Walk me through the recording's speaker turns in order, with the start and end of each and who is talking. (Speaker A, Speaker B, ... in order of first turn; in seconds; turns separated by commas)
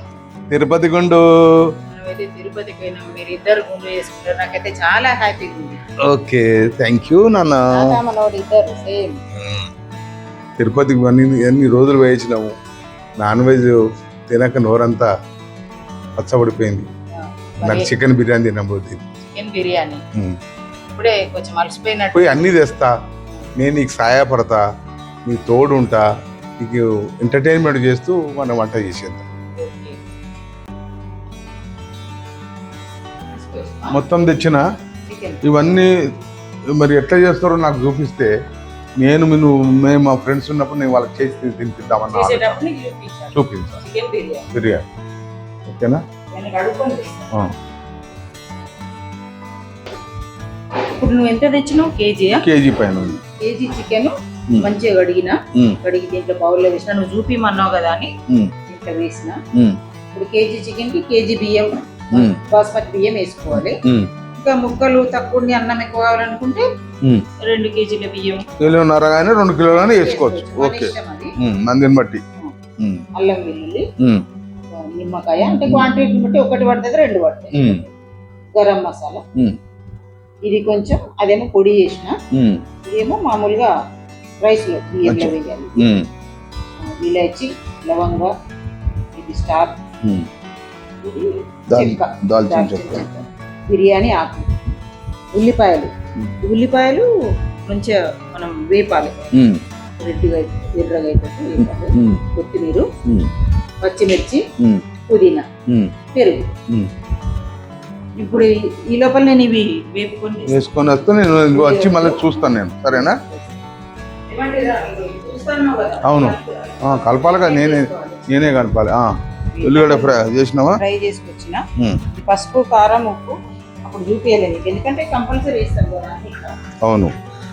Speaker A: 0.5-1.7, Speaker B: 1.9-5.8, Speaker A: 6.0-8.0, Speaker B: 7.7-9.2, Speaker A: 9.3-9.7, Speaker A: 10.6-12.5, Speaker A: 13.2-15.1, Speaker A: 16.2-16.9, Speaker B: 17.2-17.9, Speaker A: 17.6-19.0, Speaker B: 19.3-20.0, Speaker B: 20.9-22.5, Speaker A: 22.1-22.9, Speaker A: 23.6-24.6, Speaker A: 25.3-29.2, Speaker B: 29.5-30.0, Speaker B: 33.3-34.0, Speaker A: 33.9-34.7, Speaker B: 35.0-35.6, Speaker A: 35.4-36.1, Speaker A: 36.7-38.3, Speaker A: 39.0-42.6, Speaker B: 42.1-44.5, Speaker A: 43.3-43.8, Speaker A: 44.5-44.8, Speaker A: 45.6-46.0, Speaker B: 46.3-47.3, Speaker B: 50.8-58.1, Speaker A: 52.3-53.2, Speaker A: 55.5-55.8, Speaker B: 58.6-59.4, Speaker B: 60.1-63.8, Speaker A: 62.1-62.4, Speaker A: 63.5-64.1, Speaker B: 64.3-66.7, Speaker B: 67.4-68.5, Speaker A: 68.6-72.2, Speaker B: 69.7-71.3, Speaker A: 72.8-73.0, Speaker B: 73.1-73.9, Speaker A: 74.0-74.2, Speaker B: 74.8-77.8, Speaker A: 77.5-77.8, Speaker B: 78.5-79.2, Speaker B: 80.4-82.2, Speaker A: 82.3-82.6, Speaker B: 82.8-83.7, Speaker B: 84.4-85.9, Speaker A: 85.0-86.1, Speaker B: 86.8-88.3, Speaker B: 89.1-89.8, Speaker A: 90.0-90.3, Speaker B: 91.0-94.7, Speaker A: 91.7-93.0, Speaker B: 95.3-97.1, Speaker B: 97.7-99.3, Speaker A: 99.3-99.6, Speaker B: 100.0-102.9, Speaker A: 101.6-102.2, Speaker A: 103.0-103.3, Speaker B: 103.8-104.4, Speaker A: 104.6-104.8, Speaker B: 105.0-105.5, Speaker A: 105.7-105.9, Speaker B: 106.1-106.5, Speaker B: 108.2-110.6, Speaker A: 110.5-113.2, Speaker B: 111.4-113.6, Speaker B: 114.3-118.5, Speaker A: 116.0-120.8, Speaker B: 119.5-120.2, Speaker B: 120.8-126.5, Speaker A: 121.8-122.0, Speaker A: 126.8-127.1